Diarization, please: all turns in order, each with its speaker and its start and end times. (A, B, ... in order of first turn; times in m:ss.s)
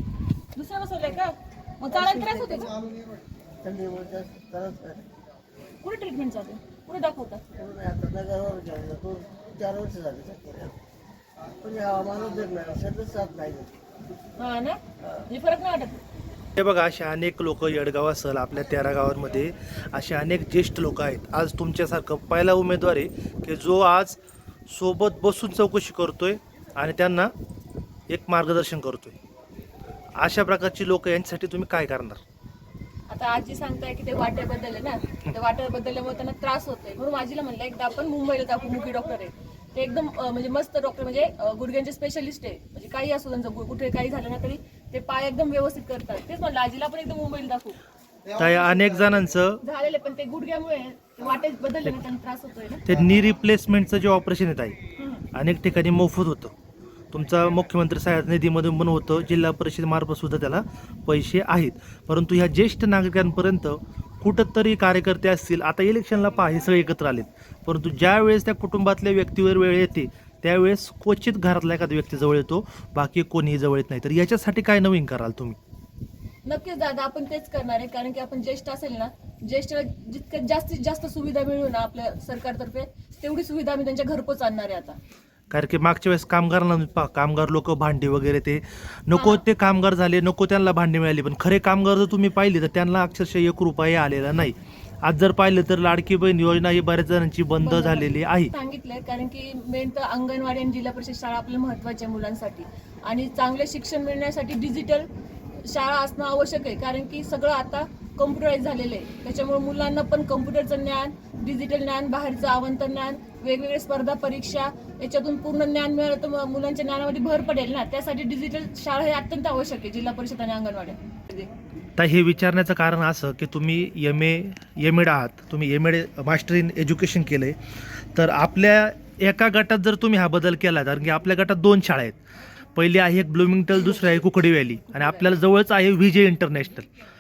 0:00.6-0:02.8 A
0:01.9-0:02.9 B
0:03.6-0:05.1 B
0:05.8-0:07.4 A
0:07.5-0:10.8 B
0:11.6-0:13.8 B
0:14.4-0:16.0 A
0:16.6-0:27.3 C
0:28.1-0:29.2 C
0:30.2-0:32.2 C
0:33.1-0:47.8 A
0:48.4-0:49.6 C
0:49.6-0:52.9 A
0:52.9-0:54.8 C
0:55.0-0:55.3 A
0:55.3-0:56.5 C
0:57.1-1:15.6 C
1:16.5-1:25.0 A
1:25.5-1:38.5 C
1:29.1-1:29.4 A
1:37.6-1:45.1 A
1:45.6-2:01.5 A
2:02.0-2:07.6 C
2:08.2-2:12.2 C
2:12.8-2:16.9 C
2:14.9-2:15.3 A